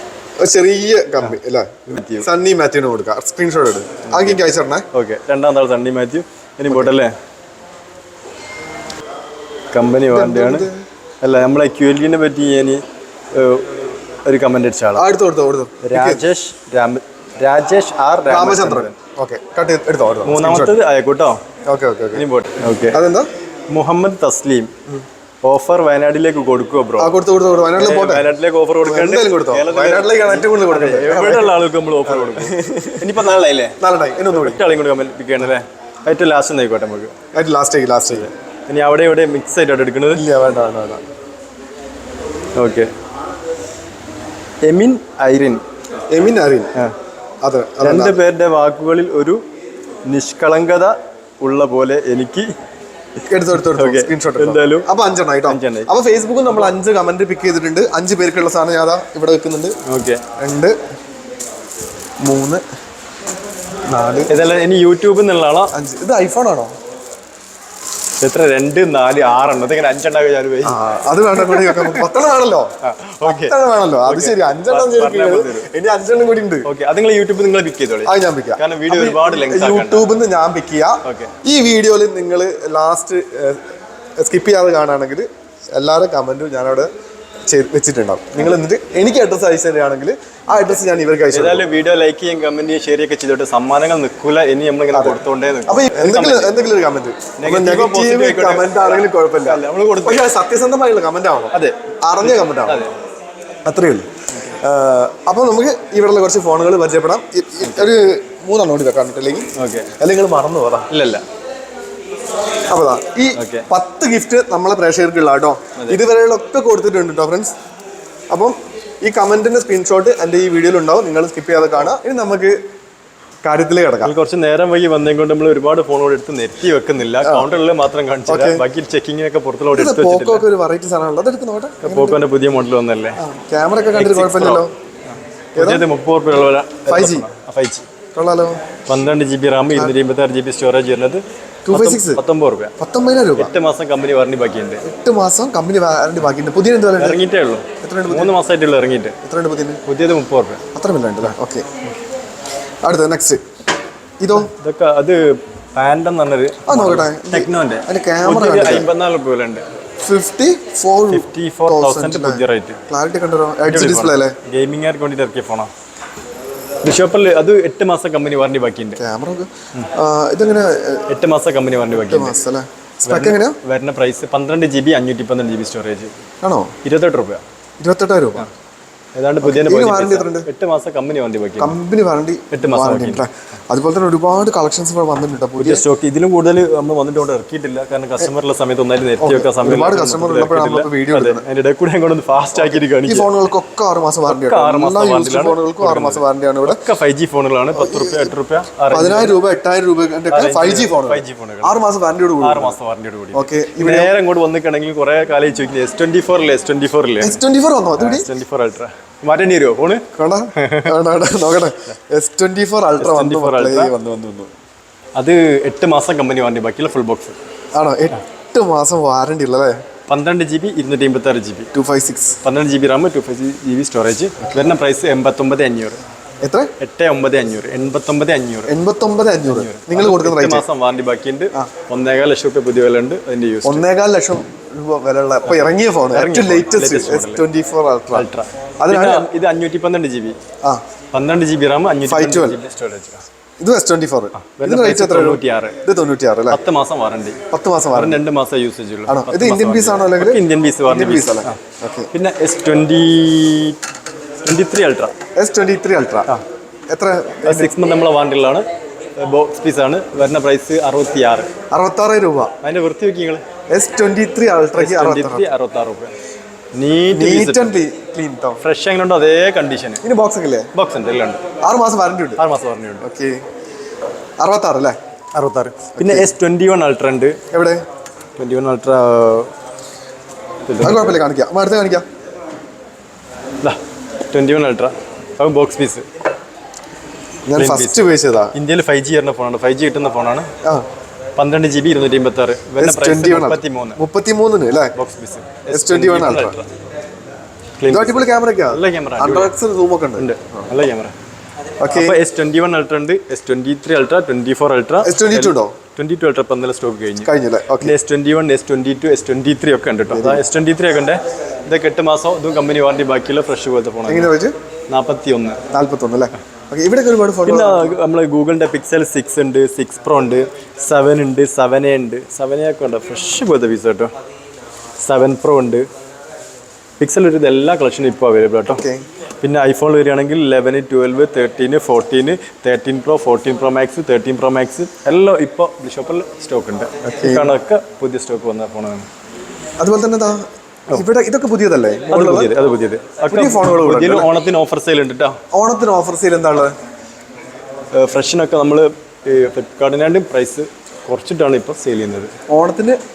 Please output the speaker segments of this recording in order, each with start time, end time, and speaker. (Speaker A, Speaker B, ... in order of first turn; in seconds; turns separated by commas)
Speaker A: 0.4-4.9, Speaker B: 1.9-2.3, Speaker B: 4.1-4.4, Speaker B: 4.9-7.1, Speaker B: 9.7-10.7, Speaker A: 10.1-10.8, Speaker B: 11.2-15.1, Speaker A: 14.9-16.2, Speaker B: 15.8-18.9, Speaker A: 18.3-20.8, Speaker B: 20.2-21.4, Speaker A: 21.7-22.3, Speaker B: 22.1-23.0, Speaker A: 22.9-23.3, Speaker B: 23.7-24.8, Speaker B: 25.4-27.1, Speaker A: 27.0-28.3, Speaker B: 27.8-37.1, Speaker A: 28.8-33.2, Speaker A: 33.8-34.6, Speaker A: 37.3-38.3, Speaker B: 38.1-40.3, Speaker A: 40.1-41.0, Speaker B: 42.6-42.9, Speaker B: 44.6-45.6, Speaker A: 46.1-46.7, Speaker A: 47.4-48.2, Speaker B: 47.8-49.4, Speaker B: 50.1-52.5, Speaker A: 53.3-59.8, Speaker B: 53.7-54.9, Speaker B: 55.5-55.9, Speaker B: 59.9-60.2, Speaker A: 60.4-60.8, Speaker A: 62.2-62.6, Speaker A: 63.9-64.4, Speaker B: 64.3-65.7, Speaker A: 65.7-66.8, Speaker B: 68.2-70.8, Speaker A: 70.6-72.7, Speaker B: 71.4-72.1, Speaker B: 72.8-73.5, Speaker A: 73.2-76.7, Speaker B: 74.1-75.7, Speaker B: 76.7-80.1, Speaker A: 78.0-83.7, Speaker B: 81.0-81.3, Speaker A: 84.2-86.9, Speaker A: 87.5-91.7, Speaker B: 91.3-96.7, Speaker A: 94.9-102.8, Speaker B: 97.4-100.2, Speaker B: 101.5-102.9, Speaker A: 103.7-110.9, Speaker B: 107.6-107.9, Speaker B: 109.6-109.9, Speaker B: 110.9-111.2, Speaker A: 112.7-117.5, Speaker B: 113.3-113.7, Speaker A: 118.3-122.6, Speaker A: 123.4-124.2, Speaker B: 124.0-130.5, Speaker A: 127.2-127.5, Speaker A: 128.3-128.6, Speaker A: 129.7-132.2, Speaker B: 131.8-133.2, Speaker A: 133.2-134.7, Speaker B: 134.0-137.9, Speaker A: 135.6-135.9, Speaker A: 136.9-137.3, Speaker A: 138.2-138.6, Speaker B: 138.9-142.7, Speaker A: 141.7-142.2, Speaker A: 142.8-143.5, Speaker B: 143.4-144.8, Speaker A: 144.8-147.2, Speaker B: 147.0-149.2, Speaker A: 147.8-148.3, Speaker A: 149.2-149.8, Speaker B: 149.8-150.6, Speaker A: 150.8-151.7, Speaker A: 152.8-153.4, Speaker A: 154.2-154.5, Speaker B: 154.3-159.6, Speaker A: 156.7-158.9, Speaker A: 160.0-164.3, Speaker B: 161.1-162.8, Speaker B: 163.7-165.7, Speaker B: 166.8-169.0, Speaker A: 169.0-171.1, Speaker B: 171.1-172.3, Speaker A: 172.1-173.6, Speaker B: 173.1-176.1, Speaker A: 176.4-176.7, Speaker B: 176.8-177.4, Speaker A: 177.8-178.5, Speaker B: 179.2-181.8, Speaker A: 179.4-180.5, Speaker A: 181.6-185.8, Speaker B: 182.5-183.2, Speaker B: 185.6-193.3, Speaker A: 189.2-191.4, Speaker A: 192.5-196.8, Speaker B: 194.3-199.4, Speaker A: 197.7-198.3, Speaker A: 198.9-202.8, Speaker B: 200.3-201.8, Speaker B: 202.4-207.4, Speaker A: 203.3-204.1, Speaker A: 207.2-208.3, Speaker B: 208.0-211.0, Speaker A: 210.1-214.5, Speaker B: 213.0-213.9, Speaker B: 215.2-217.4, Speaker A: 217.8-219.8, Speaker B: 220.1-221.7, Speaker A: 221.7-222.4, Speaker B: 222.4-226.0, Speaker A: 226.4-226.7, Speaker B: 226.8-228.7, Speaker A: 228.7-230.7, Speaker B: 229.5-233.9, Speaker A: 233.6-238.3, Speaker B: 235.4-237.4, Speaker B: 238.1-240.4, Speaker A: 238.8-239.3, Speaker B: 241.1-243.3, Speaker A: 242.1-242.6, Speaker A: 243.6-246.6, Speaker B: 244.4-245.8, Speaker B: 246.5-247.4, Speaker A: 247.5-248.2, Speaker B: 247.9-251.6, Speaker A: 249.1-252.1, Speaker B: 252.1-253.8, Speaker B: 254.4-255.2, Speaker A: 255.4-256.3, Speaker A: 256.9-257.7, Speaker B: 257.4-261.5, Speaker A: 261.7-262.5, Speaker B: 262.6-263.4, Speaker A: 263.7-265.5, Speaker B: 264.8-266.1, Speaker B: 266.8-267.8, Speaker A: 267.1-268.6, Speaker B: 268.6-270.0, Speaker A: 270.0-270.7, Speaker B: 270.7-271.4, Speaker A: 271.6-272.4, Speaker B: 272.4-273.1, Speaker A: 273.0-273.4, Speaker A: 274.4-275.0, Speaker B: 275.4-277.4, Speaker A: 275.9-276.3, Speaker A: 277.5-277.9, Speaker B: 278.4-279.5, Speaker B: 280.7-281.2, Speaker A: 280.8-282.1, Speaker B: 283.6-286.1, Speaker A: 287.5-288.5, Speaker B: 287.6-290.5, Speaker B: 291.4-294.0, Speaker A: 292.8-294.9, Speaker B: 294.9-296.7, Speaker A: 295.7-296.6, Speaker B: 297.8-299.5, Speaker A: 297.9-300.7, Speaker B: 300.2-301.1, Speaker A: 301.8-302.2, Speaker B: 301.9-314.3, Speaker A: 305.0-305.8, Speaker A: 307.2-308.0, Speaker A: 310.1-310.4, Speaker A: 314.1-314.6, Speaker B: 314.9-315.6, Speaker A: 315.7-317.9, Speaker B: 317.4-324.1, Speaker B: 325.0-325.9, Speaker B: 327.0-328.9, Speaker A: 328.7-329.0, Speaker B: 329.4-339.1, Speaker A: 337.2-337.5, Speaker A: 339.8-342.6, Speaker B: 342.1-345.4, Speaker A: 343.3-344.3, Speaker A: 345.5-346.8, Speaker B: 347.9-352.4, Speaker A: 352.5-353.0